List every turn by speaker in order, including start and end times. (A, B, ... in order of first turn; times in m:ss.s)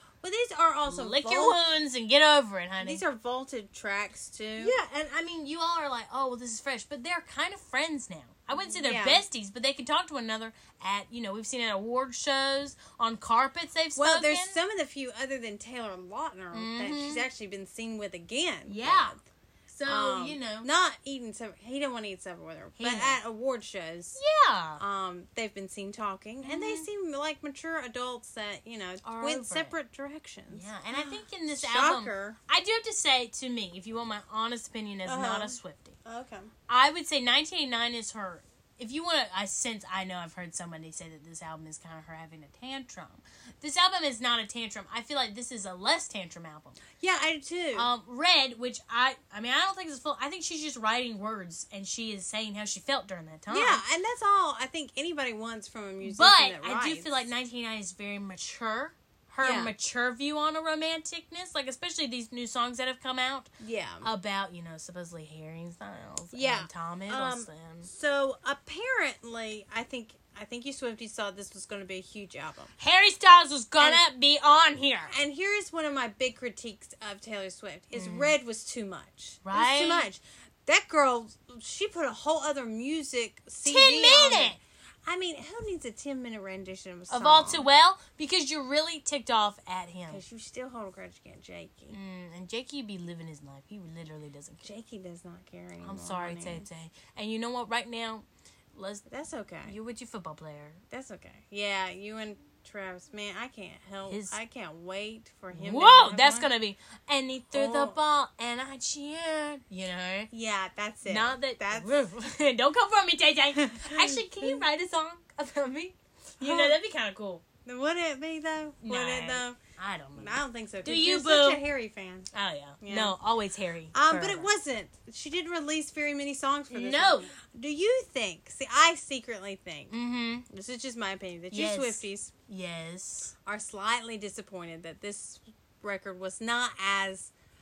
0:00.2-0:01.6 A
0:00.8-0:03.0 B
0:02.8-0:04.8 A
0:04.6-0:14.6 B
0:08.6-0:09.2 A
0:14.0-0:19.2 A
0:16.5-0:17.2 B
0:18.7-0:19.2 B
0:19.7-0:20.7 B
0:19.8-0:24.2 A
0:22.8-0:23.2 B
0:24.2-0:24.8 B
0:24.8-0:32.4 A
0:26.4-0:26.9 B
0:29.0-0:29.8 B
0:30.5-0:36.0 B
0:35.0-0:36.5 A
0:36.7-0:46.8 B
0:47.0-0:47.9 A
0:47.7-0:53.8 B
0:53.5-0:57.2 A
0:56.0-1:03.5 B
0:59.4-0:59.7 A
1:03.6-1:04.1 A
1:04.0-1:07.9 B
1:06.3-1:12.7 A
1:12.8-1:15.1 B
1:13.8-1:14.0 A
1:15.1-1:27.7 A
1:17.9-1:18.3 B
1:19.4-1:20.1 B
1:23.6-1:24.6 B
1:27.1-1:30.2 B
1:30.1-1:32.0 A
1:31.9-1:34.7 B
1:34.6-1:36.6 A
1:35.8-1:39.0 B
1:39.1-1:39.7 A
1:39.6-1:40.8 B
1:40.9-1:46.5 A
1:44.0-1:44.3 B
1:45.5-1:50.3 B
1:47.5-1:48.0 A
1:50.3-1:52.0 A
1:51.0-1:57.4 B
1:53.6-1:54.6 A
1:56.4-1:56.8 A
1:57.6-1:59.6 A
1:58.8-2:01.6 B
2:00.2-2:02.3 A
2:02.3-2:04.5 B
2:02.8-2:03.2 A
2:03.9-2:09.9 A
2:06.7-2:07.3 B
2:09.9-2:10.5 B
2:10.5-2:12.3 A
2:11.5-2:13.3 B
2:13.4-2:17.3 A